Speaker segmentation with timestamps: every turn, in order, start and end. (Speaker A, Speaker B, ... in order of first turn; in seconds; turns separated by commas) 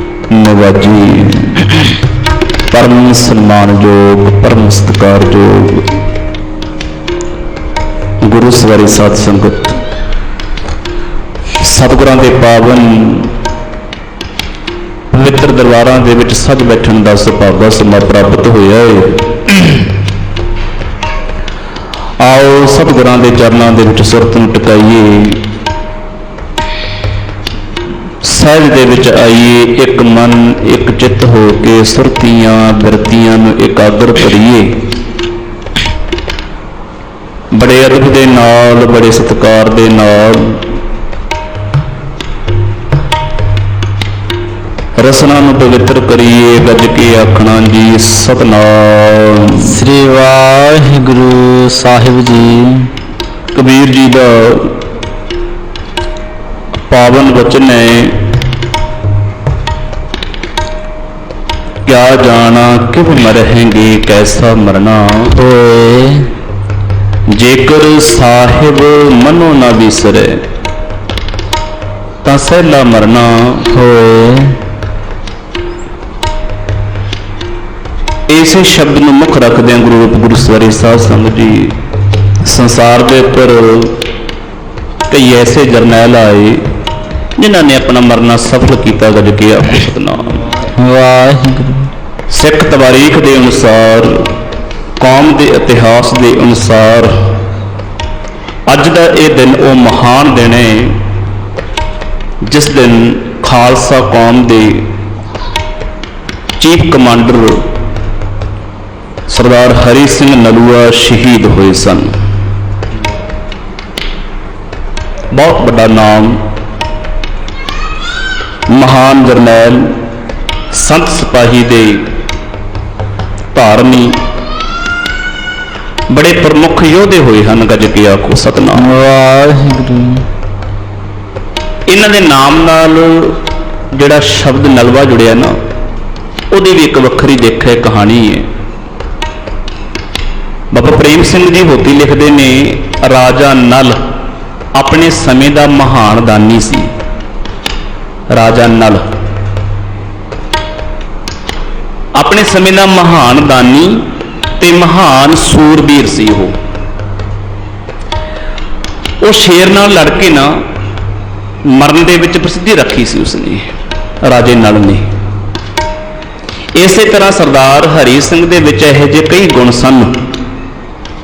Speaker A: 0.3-1.7, Speaker A: 2.7-5.9, Speaker A: 8.2-9.8, Speaker A: 11.6-13.3, Speaker A: 15.1-19.6, Speaker A: 22.2-25.5, Speaker A: 28.2-34.8, Speaker A: 37.5-40.7, Speaker A: 45.0-49.7, Speaker B: 49.6-52.9, Speaker A: 53.5-54.8, Speaker A: 56.9-58.3, Speaker A: 61.9-65.4, Speaker B: 65.4-66.3, Speaker A: 67.3-70.4, Speaker A: 72.2-73.7, Speaker B: 73.7-74.6, Speaker A: 78.3-81.8, Speaker A: 82.4-84.0, Speaker A: 85.1-86.6, Speaker A: 87.4-90.5, Speaker B: 90.8-91.9, Speaker A: 92.3-94.3, Speaker A: 95.0-97.2, Speaker A: 98.7-101.0, Speaker A: 102.5-104.9, Speaker A: 106.6-107.6, Speaker A: 109.3-112.1, Speaker A: 115.3-116.4, Speaker A: 118.7-120.0, Speaker A: 120.7-122.1, Speaker A: 123.5-124.2, Speaker A: 126.1-128.9, Speaker B: 128.8-130.2, Speaker A: 131.9-133.4, Speaker A: 133.9-135.5, Speaker A: 136.5-138.5, Speaker A: 140.7-144.0, Speaker A: 144.8-146.9, Speaker A: 148.3-149.0, Speaker A: 152.2-154.1, Speaker A: 154.6-156.5, Speaker A: 159.2-160.7, Speaker A: 161.7-163.7, Speaker A: 164.2-165.1, Speaker A: 166.8-170.3